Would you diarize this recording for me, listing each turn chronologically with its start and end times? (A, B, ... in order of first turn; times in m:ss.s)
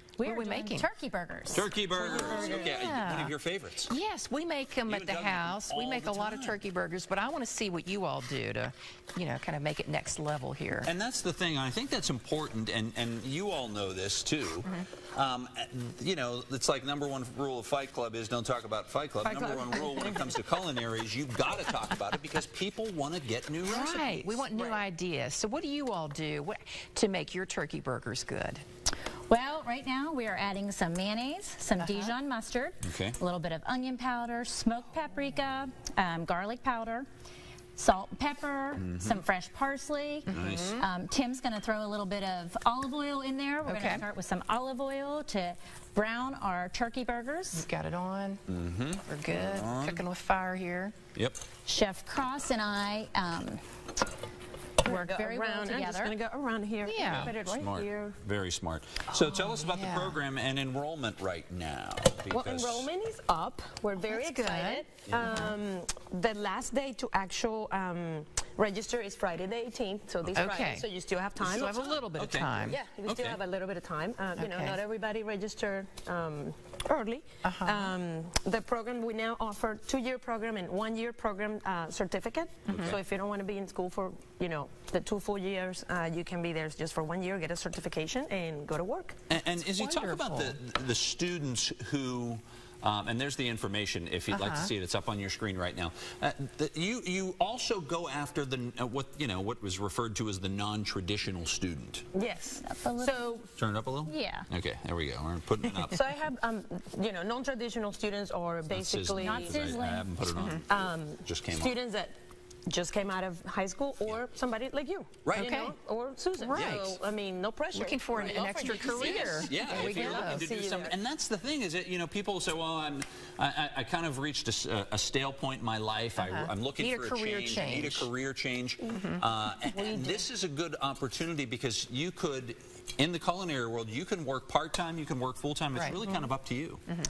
0:00.2-0:02.5 A
0:00.2-0:00.9 B
0:01.5-0:03.9 C
0:02.1-0:03.3 B
0:03.9-0:10.9 B
0:04.9-0:06.6 C
0:10.8-0:24.4 C
0:19.2-0:20.3 D
0:23.6-0:28.6 B
0:24.5-0:24.8 D
0:29.3-0:37.1 A
0:31.8-0:32.1 B
0:32.8-0:33.2 C
0:37.8-0:47.7 A
0:38.8-0:39.2 C
0:40.3-0:40.9 B
0:40.3-0:40.8 C
0:43.7-0:44.0 B
0:47.5-0:48.4 B
0:48.5-0:50.0 C
0:49.1-0:51.0 B
0:51.2-0:51.4 C
0:51.7-0:53.6 A
0:54.8-0:56.2 A
0:54.8-0:58.2 D
0:56.8-0:57.3 B
0:57.0-1:02.9 C
0:59.1-1:00.2 B
1:02.3-1:11.7 D
1:04.1-1:04.9 B
1:05.1-1:05.4 C
1:10.2-1:10.5 C
1:10.4-1:10.9 B
1:11.4-1:12.8 B
1:11.4-1:13.4 C
1:12.6-1:29.2 D
1:14.4-1:14.8 B
1:17.4-1:17.9 B
1:22.7-1:23.0 C
1:29.3-1:42.0 C
1:29.6-1:30.6 B
1:34.3-1:34.7 B
1:42.1-1:43.5 D
1:42.6-1:43.3 A
1:43.6-1:46.0 C
1:44.1-1:44.5 A
1:45.9-1:49.8 D
1:48.7-1:51.7 C
1:49.2-1:50.1 A
1:50.3-1:50.6 B
1:50.7-1:52.2 D
1:52.7-2:01.0 D
1:55.4-1:55.8 B
1:56.4-1:57.0 B
1:56.6-1:56.8 C
1:57.7-2:00.5 B
1:58.2-2:16.8 C
2:06.2-2:08.1 B
2:08.9-2:09.2 B
2:09.7-2:10.2 D
2:15.7-2:16.0 B